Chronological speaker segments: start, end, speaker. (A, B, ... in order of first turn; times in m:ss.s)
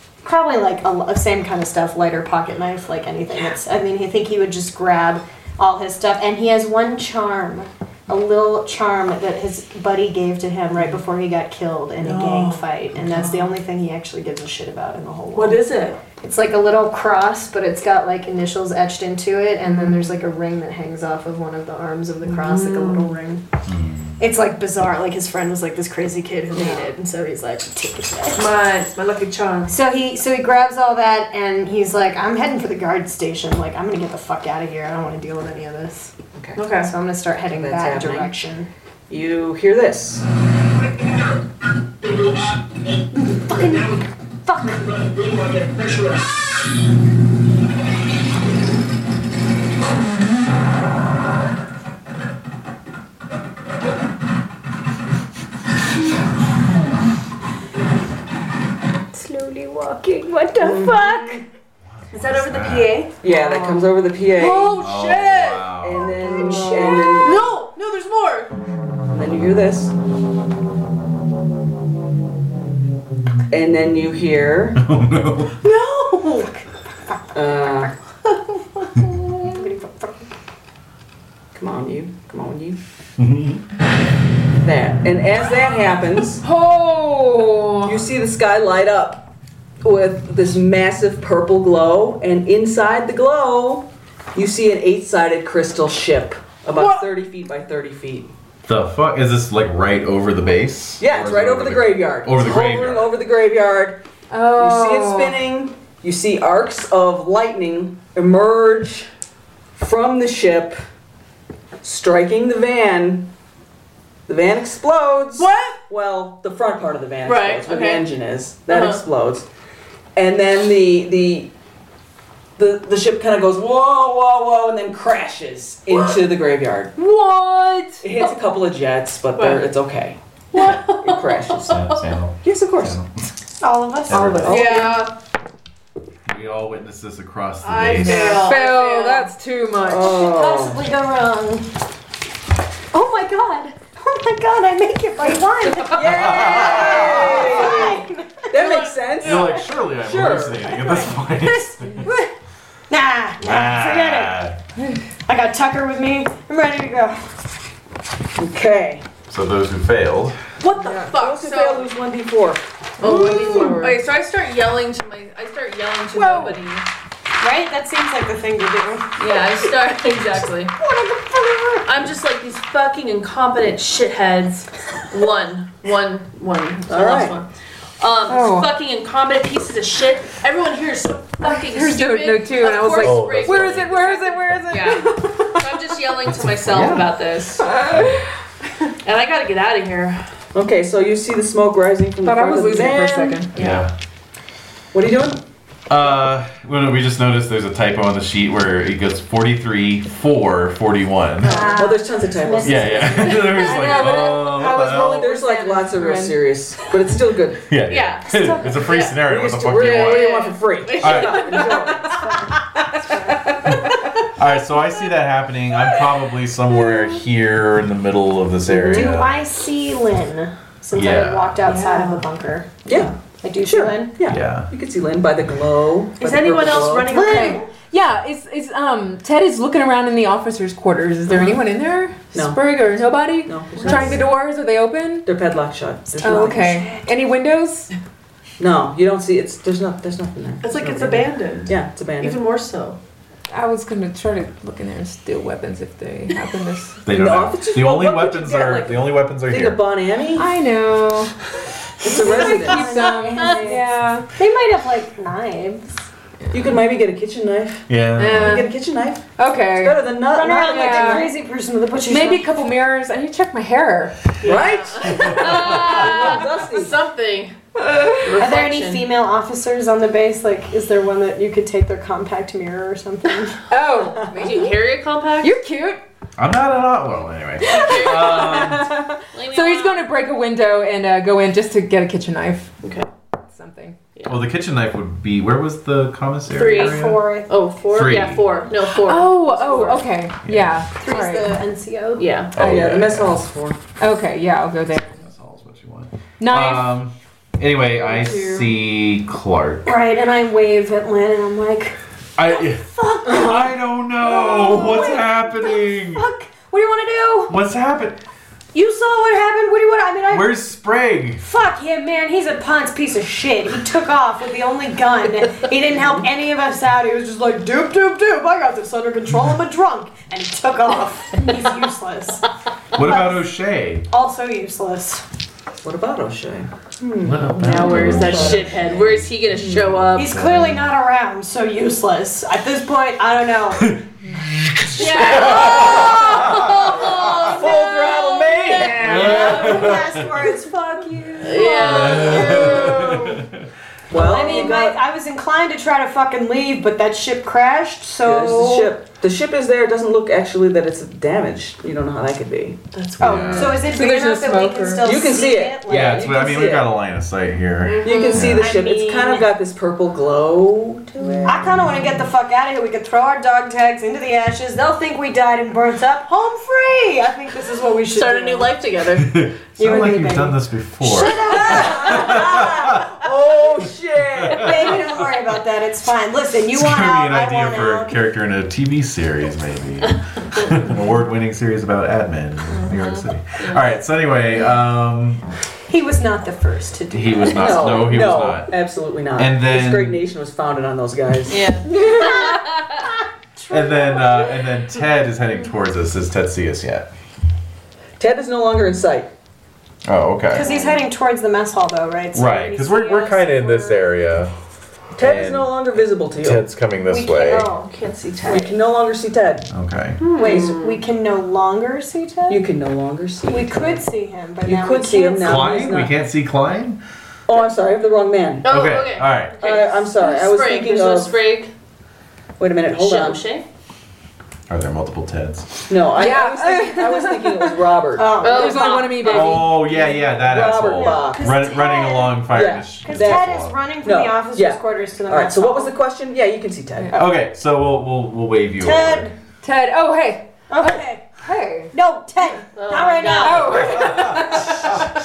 0:00.2-0:15.6 A
0:12.0-0:13.5 B
0:15.3-0:16.0 B
0:16.2-0:23.4 A
0:22.2-0:23.2 B
0:23.7-0:24.2 C
0:24.2-0:28.4 A
0:26.5-0:26.9 D
0:28.4-0:29.8 B
0:29.7-0:36.1 A
0:36.3-0:36.7 D
0:36.6-0:36.9 B
0:36.8-0:38.7 A
0:37.5-0:38.3 D
0:39.1-0:40.3 D
0:43.1-0:44.9 A
0:59.1-1:01.4 A
1:00.6-1:01.4 D
1:02.0-1:02.9 C
1:02.1-1:03.2 B
1:03.2-1:04.8 D
1:03.4-1:03.7 E
1:04.4-1:08.5 B
1:04.8-1:06.2 C
1:05.8-1:07.4 D
1:06.4-1:07.0 A
1:06.4-1:06.7 E
1:09.1-1:09.9 D
1:13.5-1:14.8 D
1:14.8-1:15.6 C
1:15.7-1:16.5 B
1:15.7-1:16.4 A
1:17.3-1:17.9 D
1:19.3-1:20.3 A
1:21.5-1:22.8 D
1:23.2-1:23.6 C
1:24.6-1:26.4 D
1:26.4-1:28.0 E
1:27.8-1:29.3 D
1:29.8-1:38.3 D
1:36.7-1:37.0 E
1:38.7-1:43.1 C
1:41.0-1:49.1 D
1:44.3-1:45.4 E
1:49.8-1:50.8 D
1:51.8-1:53.3 D
1:54.3-1:59.5 D
1:55.4-1:55.8 B
1:57.2-1:58.1 B
1:58.7-1:59.0 B
2:00.2-2:01.5 D
2:02.6-2:06.9 D
2:07.0-2:08.1 E
2:08.0-2:11.8 D
2:09.4-2:09.6 B
2:10.5-2:12.0 B
2:11.6-2:13.1 C
2:12.4-2:13.0 D
2:13.6-2:14.7 A
2:14.1-2:14.7 C
2:14.1-2:15.1 D
2:14.5-2:15.1 B
2:16.3-2:18.6 C
2:17.6-2:19.3 B
2:18.0-2:20.2 E
2:19.8-2:20.8 D
2:19.9-2:21.7 A
2:22.9-2:28.5 A
2:25.8-2:30.8 D
2:26.2-2:27.5 C
2:28.5-2:29.6 B
2:29.2-2:32.1 C
2:30.7-2:32.3 A
2:32.9-2:34.4 A
2:33.4-2:34.6 C
2:35.3-2:37.3 A
2:38.4-2:39.1 D
2:39.3-2:40.4 C
2:40.6-2:41.9 B
2:40.8-2:41.1 E
2:41.1-2:43.6 D
2:43.0-2:46.9 B
2:43.0-2:44.0 E
2:46.1-2:46.6 E
2:47.4-2:49.1 A
2:49.2-2:50.8 B
2:50.8-2:51.9 A
2:51.8-2:57.5 B
2:56.9-2:57.4 D
2:58.0-3:07.8 B
2:58.3-2:58.7 E
3:01.4-3:05.6 E
3:03.0-3:03.9 C
3:06.4-3:07.1 C
3:07.6-3:08.2 E
3:07.9-3:08.1 C
3:09.0-3:10.2 B
3:10.5-3:13.4 D
3:12.2-3:13.5 E
3:13.6-3:13.9 B
3:13.6-3:13.9 C
3:14.9-3:15.4 D
3:15.9-3:21.7 C
3:21.4-3:21.8 B
3:21.4-3:24.0 A
3:21.6-3:23.4 D
3:22.6-3:25.3 C
3:23.4-3:26.4 E
3:25.1-3:27.7 D
3:27.7-3:30.4 C
3:27.9-3:32.1 B
3:28.3-3:28.9 A
3:29.2-3:32.3 D
3:31.0-3:31.6 C
3:32.2-3:32.5 A
3:34.3-3:39.4 C
3:38.7-3:44.2 A
3:40.9-3:41.6 C
3:41.6-3:42.3 B
3:42.8-3:47.2 D
3:44.3-3:44.7 C
3:46.2-3:47.6 B
3:47.1-3:55.3 E
3:47.1-3:47.6 A
3:52.3-3:54.3 D
3:53.8-3:54.2 B
3:55.2-3:57.0 D
3:56.2-3:57.1 A
3:56.2-3:57.9 E
3:58.6-4:02.4 D
4:00.6-4:03.0 B
4:03.5-4:07.0 E
4:07.1-4:09.8 C
4:07.1-4:10.5 D
4:10.4-4:11.3 E
4:12.0-4:13.1 D
4:12.0-4:14.3 E
4:12.0-4:15.8 A
4:16.5-4:21.4 D
4:17.9-4:18.5 C
4:18.2-4:18.7 E
4:19.4-4:21.3 E
4:20.3-4:22.5 A
4:22.1-4:24.2 E
4:24.4-4:27.6 B
4:24.4-4:27.0 D
4:25.3-4:25.6 C
4:27.8-4:28.4 E
4:28.2-4:29.1 B
4:28.4-4:33.6 A
4:33.7-4:34.8 E
4:34.3-4:35.6 B
4:35.4-4:36.0 E
4:36.4-4:38.9 C
4:37.7-4:38.8 B
4:37.7-4:42.7 E
4:39.3-4:40.1 B
4:43.5-4:44.0 E
4:44.2-4:44.4 B
4:44.3-4:47.3 C
4:46.5-4:49.8 B
4:46.7-4:47.6 A
4:47.9-4:48.4 C
4:48.5-4:50.0 A
4:49.0-4:51.5 E
4:50.4-4:50.8 C
4:51.0-4:52.3 A
4:52.2-4:52.9 B
4:52.6-4:53.4 C
4:52.6-4:53.8 D
4:54.0-4:55.2 E
4:55.2-5:00.0 C
4:56.4-4:57.0 E
4:58.0-4:58.7 E
4:59.8-5:02.0 A
5:02.4-5:06.3 C
5:02.5-5:07.6 A
5:07.5-5:08.2 C
5:08.7-5:10.6 A
5:10.3-5:11.4 C
5:11.4-5:23.5 A
5:15.9-5:16.3 D
5:23.0-5:24.1 C
5:24.1-5:25.2 A
5:25.8-5:28.8 D
5:27.2-5:28.7 C
5:27.6-5:30.4 B
5:28.1-5:29.1 A
5:29.5-5:30.0 D
5:30.0-5:30.8 C
5:30.2-5:34.0 A
5:33.8-5:37.6 C
5:35.0-5:40.0 B
5:35.0-5:36.4 A
5:35.7-5:36.6 D
5:37.4-5:39.6 D
5:38.7-5:43.4 A
5:38.8-5:40.3 C
5:41.4-5:43.2 B
5:41.8-5:43.6 C
5:44.1-5:45.0 D
5:44.1-5:48.9 A
5:44.3-5:44.6 E
5:48.2-5:52.8 D
5:53.0-5:53.8 B
5:53.2-5:53.8 C
5:53.2-5:56.3 A
5:53.2-5:55.2 E
5:55.0-5:56.9 D
5:55.9-5:58.7 C
5:58.0-5:59.5 A
5:58.0-6:01.8 D
6:01.4-6:08.7 A
6:08.1-6:09.3 B
6:09.2-6:13.1 C
6:09.8-6:12.7 A
6:11.4-6:15.2 D
6:14.4-6:15.0 C
6:14.5-6:18.2 A
6:16.7-6:25.4 C
6:20.6-6:20.8 B
6:22.7-6:23.8 B
6:25.9-6:28.2 A
6:27.1-6:28.7 C
6:27.5-6:31.7 D
6:29.4-6:30.2 C
6:31.5-6:33.0 B
6:31.9-6:34.7 A
6:33.7-6:37.1 C
6:38.2-6:39.3 D
6:40.0-6:40.7 C
6:40.5-6:44.1 A
6:40.7-6:40.9 B
6:42.3-6:44.5 C
6:45.2-6:46.6 D
6:45.2-6:45.7 C
6:46.4-6:47.7 C
6:47.0-6:47.9 A
6:47.8-6:48.8 B
6:48.4-6:49.7 D
6:49.7-6:50.2 C
6:50.2-6:51.0 B
6:50.4-6:52.7 A
6:52.5-6:54.0 D
6:53.4-6:55.9 A
6:54.6-6:56.1 D
6:55.4-6:57.0 C
6:57.5-6:58.7 D
6:58.6-7:01.7 B
6:58.7-6:59.6 C
6:59.6-7:01.4 D
7:02.6-7:03.4 D
7:02.9-7:03.6 B
7:04.7-7:05.7 C
7:05.9-7:08.4 D
7:06.2-7:07.6 E
7:08.2-7:09.1 A
7:08.4-7:09.7 B
7:08.4-7:09.8 E
7:09.2-7:13.8 C
7:09.6-7:15.9 A
7:10.4-7:11.6 D
7:12.4-7:17.2 D
7:17.1-7:19.3 C
7:18.8-7:19.4 A
7:19.6-7:20.5 E
7:20.7-7:21.3 A
7:21.4-7:21.9 E
7:21.9-7:24.9 A
7:22.8-7:24.3 B
7:23.3-7:25.0 E